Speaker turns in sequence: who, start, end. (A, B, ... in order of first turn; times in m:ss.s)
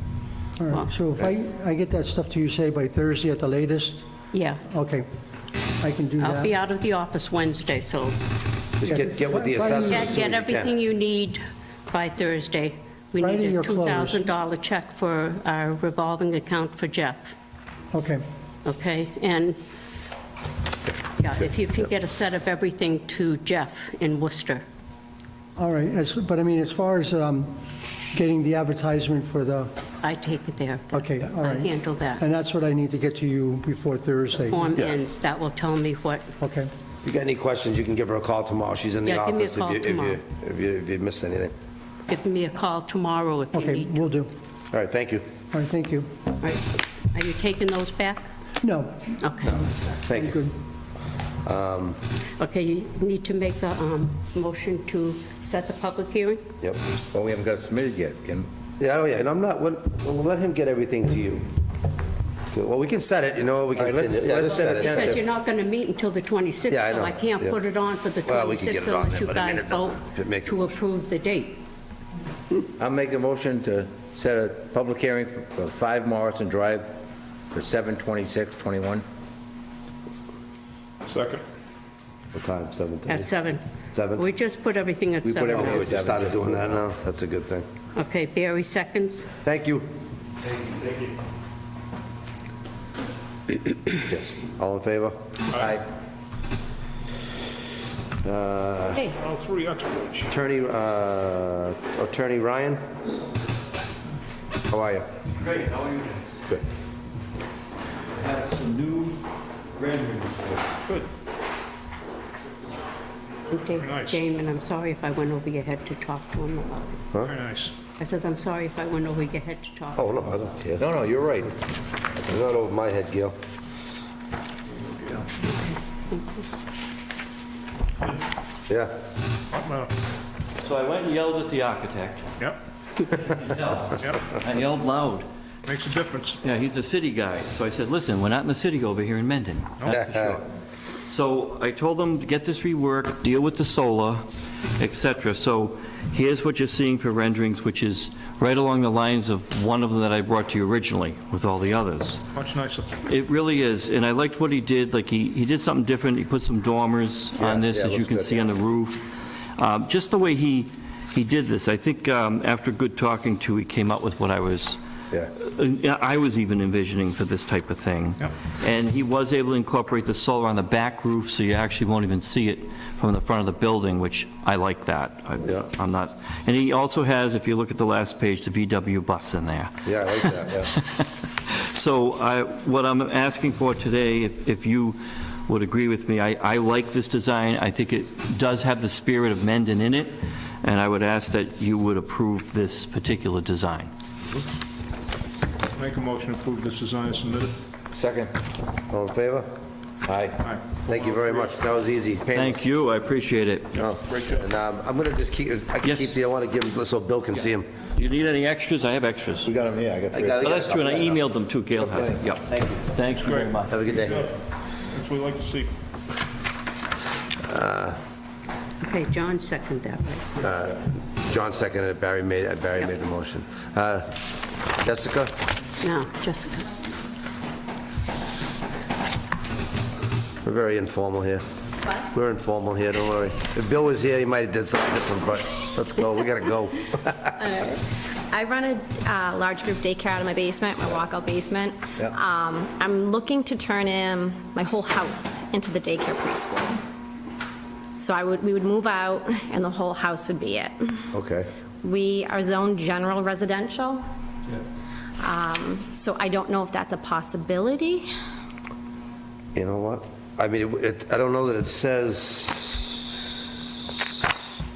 0:00.6-0:04.0 A
0:00.7-0:01.0 B
0:04.3-0:04.6 B
0:04.6-0:05.1 A
0:05.8-0:06.5 A
0:06.2-0:08.2 B
0:08.8-0:10.8 C
0:08.8-0:10.2 A
0:09.6-0:17.3 B
0:13.2-0:14.3 A
0:17.9-0:18.2 A
0:18.6-0:19.6 B
0:21.2-0:24.6 B
0:25.6-0:29.7 A
0:30.0-0:32.2 B
0:30.9-0:34.7 A
0:34.5-0:36.3 B
0:36.4-0:36.7 A
0:37.0-0:41.5 C
0:39.0-0:40.2 B
0:42.1-0:44.1 B
0:43.5-0:44.3 A
0:44.7-0:45.2 C
0:45.5-0:46.1 A
0:46.4-0:48.3 B
0:48.6-0:50.5 A
0:49.2-0:49.6 B
0:49.4-0:50.4 C
0:51.4-0:52.0 C
0:52.4-0:56.4 B
0:57.1-0:58.5 D
0:58.8-1:01.5 C
1:02.5-1:05.2 C
1:03.8-1:05.2 D
1:04.5-1:11.6 B
1:06.7-1:07.6 C
1:08.2-1:10.8 C
1:12.8-1:16.9 D
1:17.5-1:19.0 D
1:21.1-1:21.4 E
1:22.3-1:23.3 C
1:23.0-1:23.6 B
1:23.9-1:24.2 C
1:24.1-1:25.9 B
1:25.2-1:27.7 C
1:25.3-1:26.8 D
1:27.9-1:29.3 B
1:29.4-1:29.8 C
1:34.0-1:35.1 C
1:35.6-1:35.8 D
1:38.2-1:39.0 C
1:38.9-1:39.2 B
1:39.2-1:40.3 E
1:40.3-1:42.8 C
1:44.7-1:45.1 C
1:45.3-1:46.4 F
1:48.1-1:49.2 F
1:49.7-1:50.7 F
1:53.5-1:57.1 B
1:53.7-1:54.2 E
1:57.2-1:57.7 E
1:58.0-2:00.2 B
2:00.0-2:00.8 C
2:00.8-2:01.5 D
2:02.3-2:03.4 C
2:05.4-2:06.4 B
2:09.5-2:09.9 E
2:10.6-2:12.3 F
2:13.1-2:15.2 F
2:14.0-2:14.3 E
2:15.6-2:16.4 E
2:16.4-2:20.5 F
2:19.9-2:20.4 C
2:21.1-2:24.2 F
2:24.8-2:32.2 F
2:32.3-2:32.9 E
2:33.0-2:44.8 F
2:37.4-2:38.5 C
2:45.4-3:13.9 F
2:55.4-2:55.7 C
2:59.8-3:00.7 C
3:15.8-3:17.6 E
3:17.9-3:18.3 D
3:18.9-3:19.4 C
3:20.0-3:20.4 D
3:20.4-3:21.5 E
3:20.9-3:22.7 C
3:22.3-3:23.8 F
3:23.7-3:27.7 C
3:24.1-3:24.4 E
3:25.8-3:26.1 F
3:27.9-3:29.5 F
3:29.4-3:31.2 D
3:30.1-3:31.1 C
3:30.3-3:33.9 F
3:31.8-3:32.8 D
3:33.1-3:34.3 E
3:33.6-3:34.3 C
3:34.9-3:35.7 E
3:37.4-3:38.0 C
3:38.8-3:40.3 B
3:40.4-3:44.2 C
3:44.8-3:45.3 C
3:45.8-3:46.7 B
3:50.4-3:51.4 C
3:52.1-3:57.4 C
3:57.4-4:06.8 G
4:08.0-4:11.1 G
4:11.1-4:11.5 C
4:11.8-4:14.0 G
4:15.2-4:18.1 G
4:19.5-4:23.0 C